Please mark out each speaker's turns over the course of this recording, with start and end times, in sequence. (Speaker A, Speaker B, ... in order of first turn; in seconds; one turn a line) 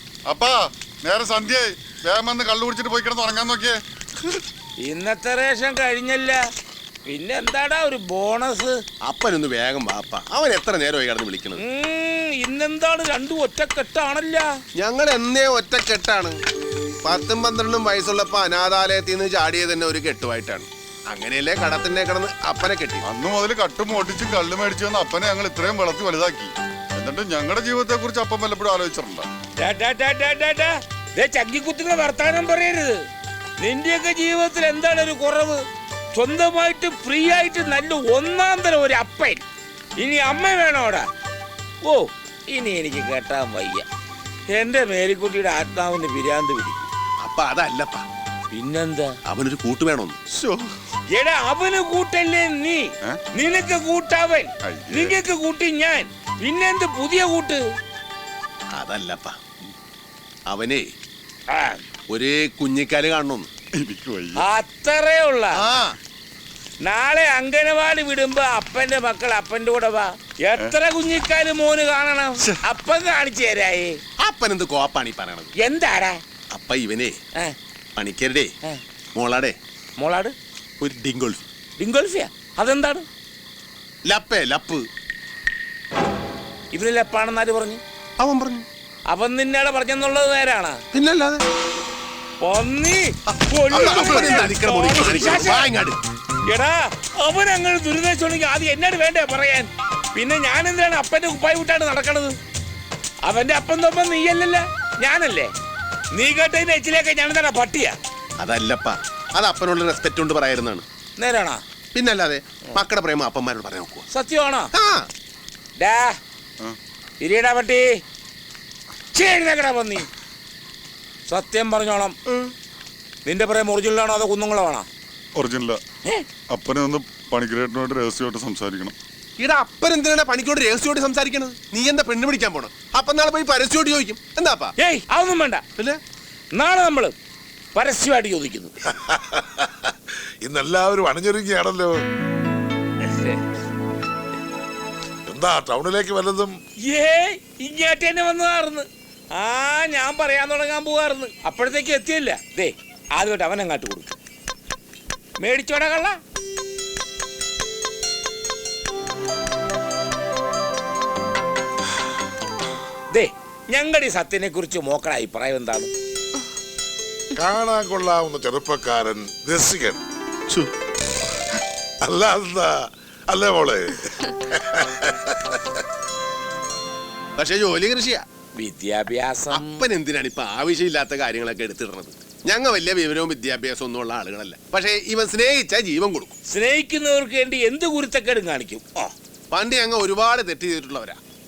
Speaker A: 0.3-3.8
Speaker B: 4.8-6.4
Speaker B: 7.0-8.8
Speaker C: 9.0-11.6
Speaker B: 11.6-14.5
Speaker C: 14.8-16.4
Speaker C: 17.0-23.0
Speaker A: 23.0-29.3
Speaker B: 29.6-33.0
Speaker B: 33.6-35.6
Speaker B: 36.1-39.4
Speaker B: 40.0-41.1
Speaker B: 41.8-43.8
Speaker B: 44.5-46.8
Speaker C: 47.2-48.0
Speaker B: 48.5-49.1
Speaker C: 49.3-50.2
Speaker A: 50.3-50.7
Speaker B: 51.1-57.6
Speaker A: 54.6-55.1
Speaker C: 58.7-59.3
Speaker C: 60.5-60.8
Speaker B: 61.5-61.8
Speaker C: 62.1-63.5
Speaker A: 63.8-64.4
Speaker B: 64.4-65.6
Speaker C: 65.6-66.0
Speaker B: 66.8-74.0
Speaker C: 74.2-75.5
Speaker B: 75.6-76.2
Speaker C: 76.5-77.2
Speaker C: 78.0-78.5
Speaker C: 79.1-79.5
Speaker B: 80.0-80.3
Speaker C: 80.8-81.4
Speaker B: 81.8-83.0
Speaker C: 84.0-84.8
Speaker B: 86.7-87.8
Speaker C: 88.2-88.6
Speaker B: 89.1-90.8
Speaker C: 90.9-91.4
Speaker B: 92.4-95.7
Speaker C: 93.7-96.0
Speaker B: 96.5-102.3
Speaker B: 103.2-105.5
Speaker B: 106.1-108.0
Speaker C: 108.4-110.8
Speaker B: 111.2-111.6
Speaker C: 111.9-114.0
Speaker B: 114.1-114.7
Speaker C: 114.7-115.1
Speaker B: 115.8-116.2
Speaker B: 117.2-117.8
Speaker B: 119.1-120.1
Speaker B: 121.3-122.2
Speaker B: 123.2-124.8
Speaker A: 125.3-125.8
Speaker A: 126.5-128.9
Speaker C: 129.4-134.7
Speaker B: 134.8-135.6
Speaker B: 136.5-137.1
Speaker B: 137.7-138.7
Speaker D: 138.9-141.9
Speaker B: 143.1-143.4
Speaker D: 145.3-146.5
Speaker B: 146.9-154.1
Speaker B: 155.4-156.2
Speaker B: 163.1-165.9
Speaker D: 167.3-170.0
Speaker D: 172.0-175.8
Speaker C: 177.4-178.2
Speaker B: 178.6-179.8
Speaker C: 179.5-186.4
Speaker B: 186.5-189.1
Speaker C: 189.5-191.2